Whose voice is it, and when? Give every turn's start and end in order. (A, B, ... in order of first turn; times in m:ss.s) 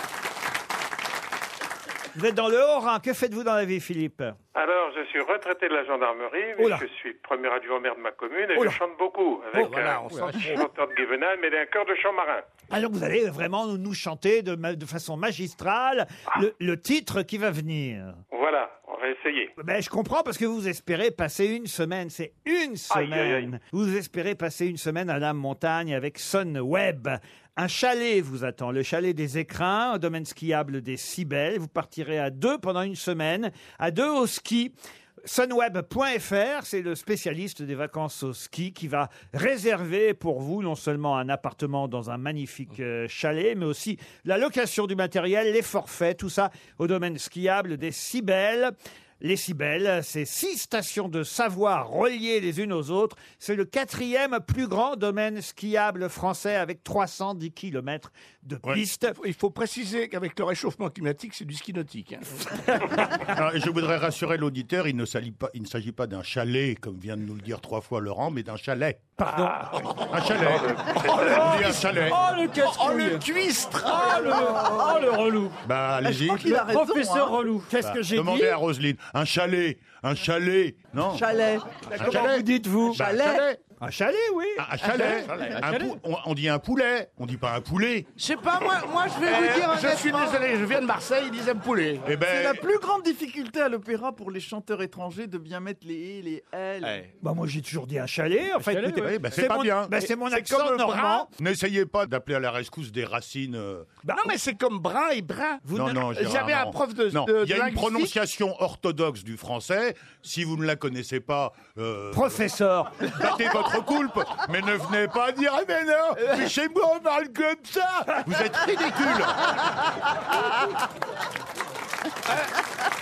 0:02.1-0:04.4 A
0:04.5-0:12.4 B
0:06.6-0:06.8 A
0:09.5-0:10.6 C
0:12.7-0:18.2 A
0:18.3-0:19.5 B
0:19.6-0:59.2 A
0:22.9-0:23.5 B
0:59.1-1:02.4 C
1:02.6-1:03.2 A
1:03.2-1:09.1 D
1:09.2-1:09.6 A
1:09.7-1:12.1 C
1:10.0-1:12.2 D
1:10.4-1:11.2 B
1:11.2-1:13.3 E
1:12.6-1:14.3 C
1:13.8-1:15.6 E
1:15.6-1:16.7 D
1:16.0-1:17.4 F
1:16.6-1:17.7 E
1:17.7-1:18.6 A
1:17.8-1:21.2 D
1:21.1-1:22.2 F
1:21.9-1:23.6 D
1:22.0-1:23.0 A
1:22.9-1:23.4 F
1:23.8-1:25.2 A
1:24.6-1:28.1 D
1:25.0-1:26.0 E
1:28.2-1:30.4 G
1:29.2-1:32.1 C
1:32.0-1:32.6 D
1:32.2-1:37.0 F
1:36.8-1:37.1 C
1:37.2-1:41.3 A
1:38.6-1:39.3 E
1:39.0-1:39.9 D
1:40.2-1:41.3 C
1:41.4-1:43.9 D
1:44.0-1:44.3 A
1:44.1-1:48.1 C
1:45.6-1:46.0 A
1:45.7-1:52.4 D
1:52.1-1:53.3 A
1:53.0-1:59.6 D
2:02.2-2:02.5 C